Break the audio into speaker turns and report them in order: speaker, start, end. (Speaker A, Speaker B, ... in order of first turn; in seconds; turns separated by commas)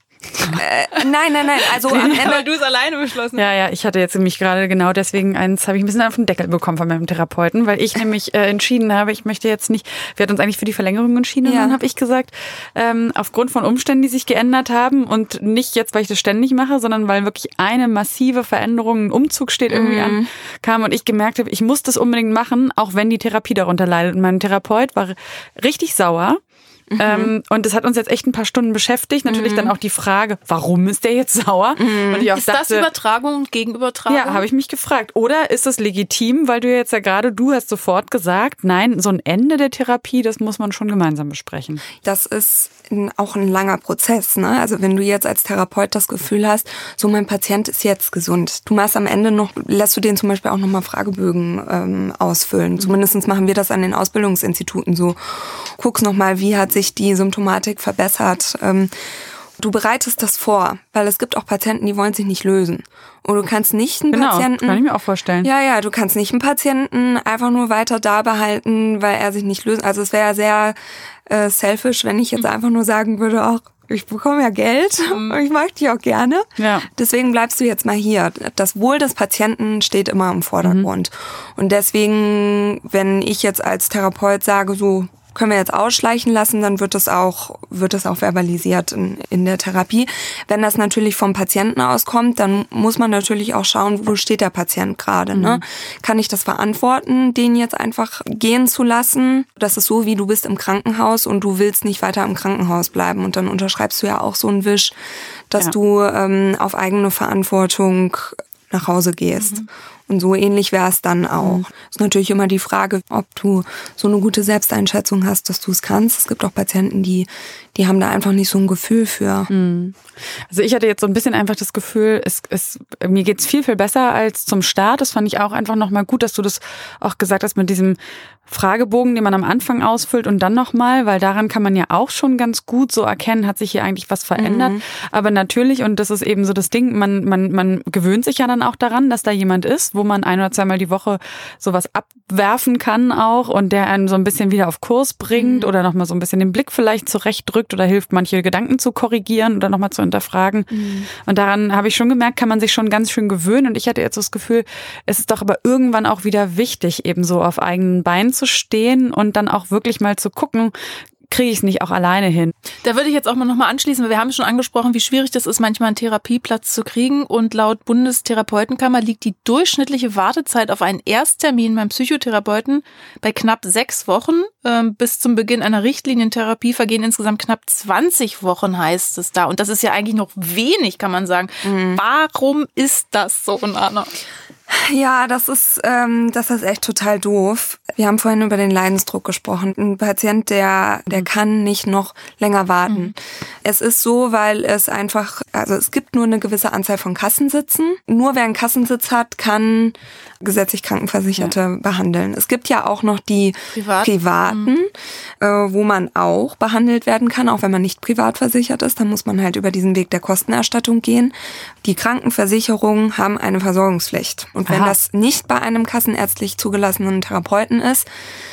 Speaker A: 0.3-0.6, Speaker B: 0.5-2.5, Speaker C: 1.8-3.5, Speaker A: 3.4-26.4, Speaker B: 11.4-11.8, Speaker B: 19.7-20.3, Speaker B: 26.9-27.3, Speaker A: 27.0-32.9, Speaker B: 29.2-29.7, Speaker B: 31.8-32.3, Speaker C: 32.3-34.4, Speaker A: 34.1-41.8, Speaker B: 42.0-58.9, Speaker B: 59.6-64.8, Speaker A: 64.1-65.5, Speaker B: 65.4-70.8, Speaker B: 71.3-104.9, Speaker C: 75.1-75.4, Speaker A: 76.6-76.9, Speaker A: 80.6-80.9, Speaker A: 95.3-95.6, Speaker B: 105.5-119.5, Speaker C: 109.4-109.7, Speaker A: 111.4-111.7, Speaker A: 119.5-120.0, Speaker A: 120.5-128.0, Speaker A: 128.5-150.7, Speaker B: 134.3-134.8, Speaker B: 145.3-145.7, Speaker B: 150.7-151.1, Speaker A: 151.2-160.7, Speaker A: 161.3-162.5, Speaker C: 162.8-184.1, Speaker B: 181.6-182.0, Speaker B: 184.7-218.1, Speaker C: 192.9-193.1, Speaker C: 203.7-204.7, Speaker A: 214.7-214.9